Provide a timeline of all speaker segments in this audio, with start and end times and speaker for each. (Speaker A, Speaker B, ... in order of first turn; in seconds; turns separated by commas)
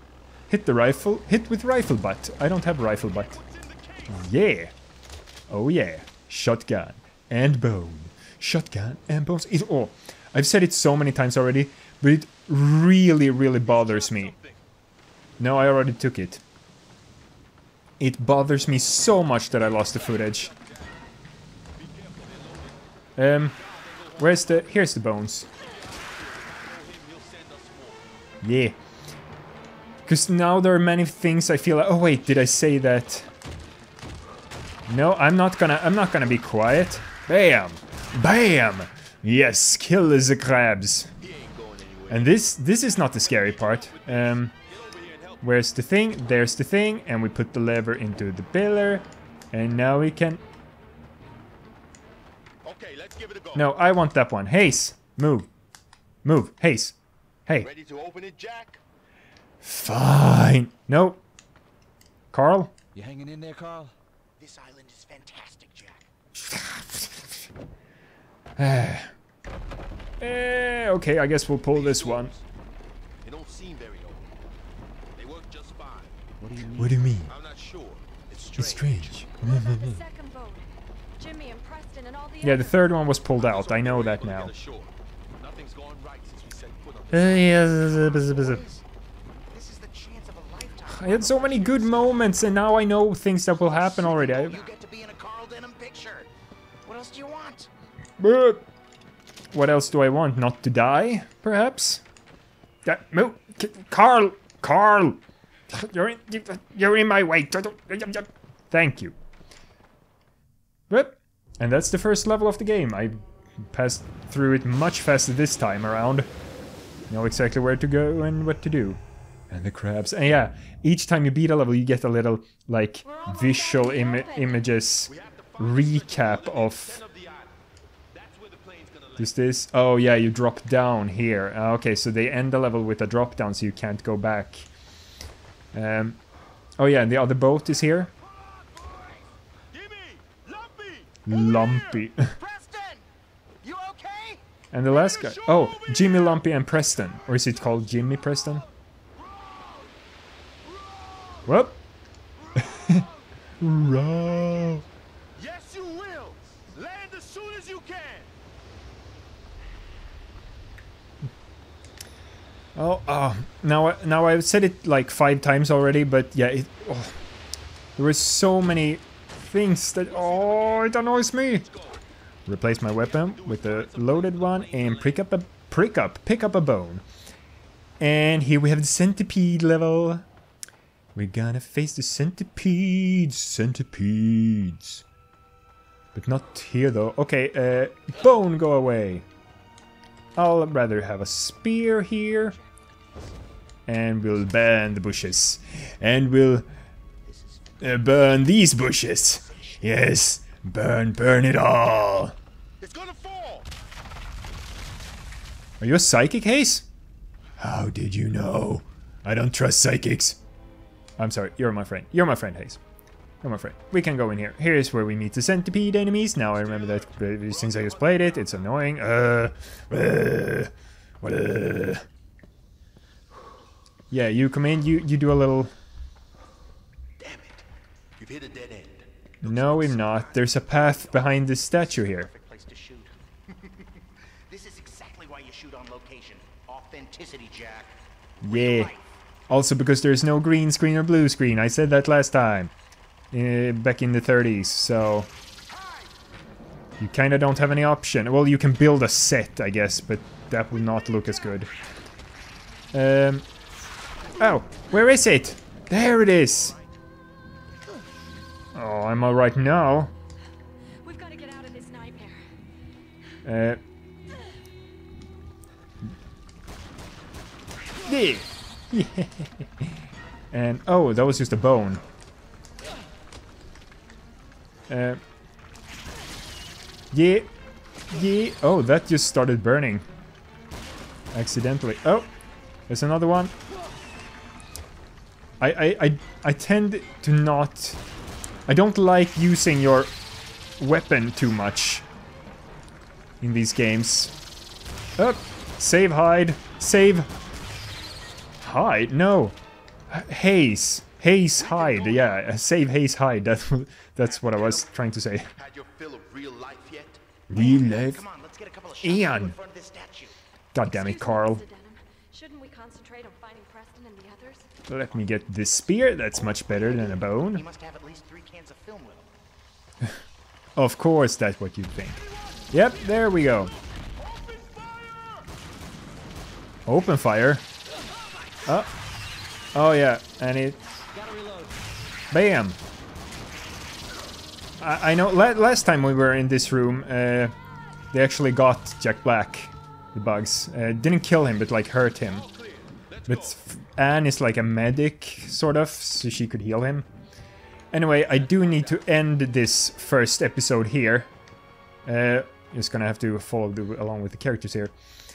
Speaker A: 0.5-3.4, Speaker B: 2.7-4.3, Speaker A: 4.1-4.7, Speaker A: 5.5-14.3, Speaker B: 13.6-14.6, Speaker A: 15.4-16.4, Speaker A: 18.0-20.5, Speaker B: 19.4-21.0, Speaker B: 21.8-22.8, Speaker A: 23.2-23.6, Speaker B: 23.4-28.1, Speaker A: 24.2-25.5, Speaker A: 28.4-28.8, Speaker A: 30.1-33.3, Speaker A: 34.9-41.1, Speaker B: 41.2-45.5, Speaker A: 42.1-44.5, Speaker A: 45.4-50.4, Speaker B: 52.6-53.8, Speaker A: 53.5-55.5, Speaker A: 56.2-57.7, Speaker B: 57.6-58.8, Speaker A: 59.6-61.2, Speaker A: 62.3-62.7, Speaker C: 62.9-63.9, Speaker D: 64.4-66.1, Speaker A: 66.3-67.3, Speaker A: 68.6-69.1, Speaker A: 70.2-72.3, Speaker B: 71.7-72.4, Speaker B: 73.2-74.3, Speaker B: 75.2-76.2, Speaker C: 76.4-77.0, Speaker A: 76.7-77.3, Speaker B: 77.3-79.2, Speaker A: 78.5-80.0, Speaker E: 79.4-80.6, Speaker E: 81.2-83.1, Speaker A: 82.4-84.5, Speaker B: 83.3-88.6, Speaker A: 87.1-88.6, Speaker D: 88.0-88.8, Speaker D: 89.5-92.6, Speaker A: 90.9-94.6, Speaker D: 93.5-96.3, Speaker D: 96.8-97.7, Speaker A: 98.2-98.6, Speaker A: 99.5-102.0, Speaker A: 102.8-109.1, Speaker A: 110.9-113.2, Speaker A: 113.7-116.3, Speaker A: 117.1-127.0, Speaker E: 123.0-124.7, Speaker B: 125.1-127.6, Speaker B: 128.1-129.3, Speaker A: 129.2-134.7, Speaker A: 135.7-136.2, Speaker A: 136.8-138.1, Speaker B: 138.3-142.1, Speaker A: 141.2-142.3, Speaker D: 142.2-143.1, Speaker D: 143.6-144.4, Speaker A: 144.7-148.6, Speaker B: 144.9-146.5, Speaker B: 149.2-149.9, Speaker B: 150.6-151.5, Speaker A: 151.4-151.8, Speaker B: 152.4-153.2, Speaker A: 152.6-153.1, Speaker A: 153.6-154.8, Speaker B: 153.9-154.4, Speaker B: 155.3-158.3, Speaker A: 162.8-167.1, Speaker A: 168.0-171.7, Speaker B: 170.0-172.0, Speaker A: 172.5-177.0, Speaker B: 172.6-175.2, Speaker A: 178.0-180.2, Speaker A: 181.1-185.0, Speaker A: 186.1-189.2, Speaker A: 190.3-192.6, Speaker D: 192.5-193.4, Speaker A: 193.9-196.7, Speaker D: 197.2-198.2, Speaker A: 197.8-202.3, Speaker D: 199.3-199.9, Speaker B: 202.8-203.7, Speaker A: 205.8-206.8, Speaker A: 207.6-210.4, Speaker A: 211.2-212.8, Speaker A: 213.4-220.7, Speaker B: 216.5-218.8, Speaker A: 221.2-222.0, Speaker A: 224.1-225.7, Speaker D: 227.2-227.6, Speaker B: 228.2-229.1, Speaker A: 229.4-232.3, Speaker D: 229.4-233.8, Speaker D: 234.5-239.2, Speaker A: 238.4-238.9, Speaker A: 239.5-242.7, Speaker A: 243.3-245.3, Speaker A: 247.0-251.7, Speaker A: 252.9-253.4, Speaker A: 254.4-256.8, Speaker B: 256.4-256.9, Speaker A: 258.7-260.1, Speaker E: 261.0-262.4, Speaker A: 263.4-263.8, Speaker A: 268.1-269.9, Speaker A: 270.5-272.0, Speaker A: 274.9-275.2, Speaker A: 277.1-277.5, Speaker A: 278.1-280.1, Speaker A: 281.3-282.3, Speaker A: 282.9-283.5, Speaker A: 285.6-288.0, Speaker A: 288.7-290.1, Speaker A: 290.8-292.1, Speaker A: 293.4-294.3, Speaker A: 295.2-297.3, Speaker A: 298.6-299.6, Speaker A: 300.1-305.5, Speaker D: 301.6-302.5, Speaker B: 304.2-307.2, Speaker A: 307.5-308.2, Speaker D: 307.5-310.4, Speaker A: 309.0-309.6, Speaker A: 310.7-311.6, Speaker E: 310.8-314.7, Speaker A: 314.9-317.6, Speaker D: 316.1-319.3, Speaker A: 320.8-322.2, Speaker B: 322.1-325.5, Speaker A: 322.7-323.7, Speaker A: 326.9-327.6, Speaker A: 328.6-328.9, Speaker A: 329.7-331.0, Speaker C: 331.1-331.8, Speaker A: 332.3-332.8, Speaker A: 334.8-337.5, Speaker A: 338.1-342.4, Speaker B: 342.2-343.6, Speaker A: 343.3-347.1, Speaker A: 347.9-351.3, Speaker B: 348.4-349.0, Speaker A: 352.1-354.9